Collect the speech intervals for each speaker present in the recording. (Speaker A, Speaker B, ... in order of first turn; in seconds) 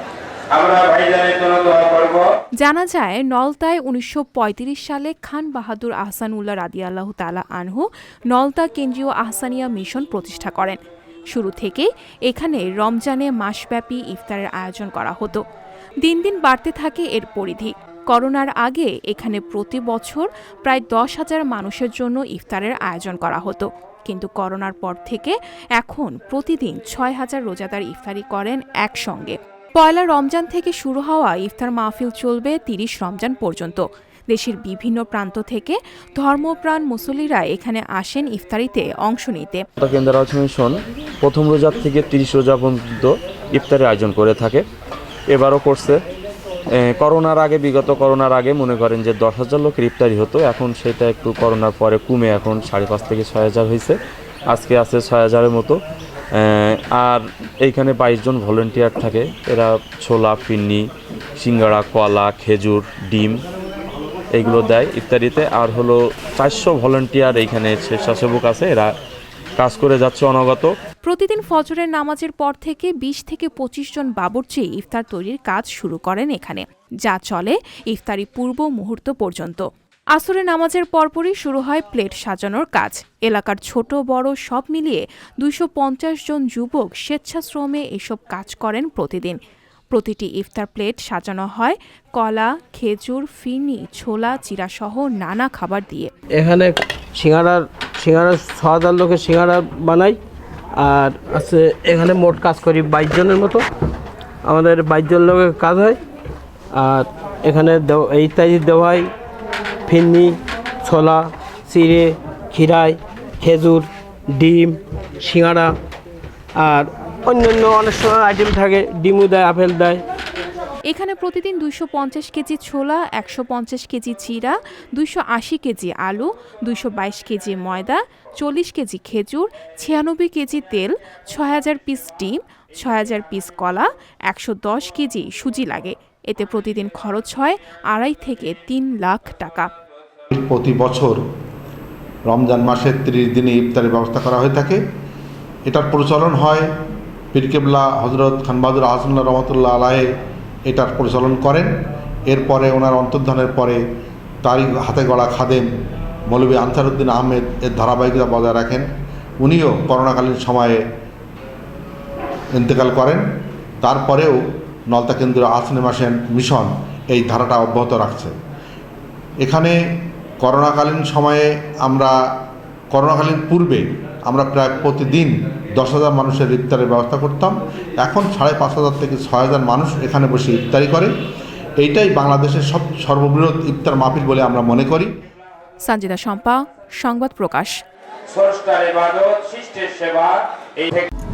Speaker A: 0.5-2.3, 188.3-191.1
Speaker B: 2.6-10.8, 11.3-15.4, 16.0-39.6, 71.0-79.6, 80.1-89.4, 89.9-96.1, 120.9-139.7, 185.8-187.7
Speaker C: 39.8-44.6, 45.3-46.0, 46.7-54.0, 54.5-55.8, 56.3-60.9, 61.4-63.4, 64.3-68.9, 69.6-70.7
Speaker D: 96.3-100.2, 100.7-103.7, 104.4-106.0, 106.7-109.1, 109.8-115.8, 116.5-120.0
Speaker E: 140.3-141.2, 142.3-144.8, 145.7-146.7, 147.3-150.1, 150.7-151.7, 152.3-153.8, 154.4-155.7, 156.3-158.9, 159.4-160.8, 162.5-163.2, 163.8-168.3, 169.4-169.8, 170.4-172.1, 172.9-181.1, 181.8-185.1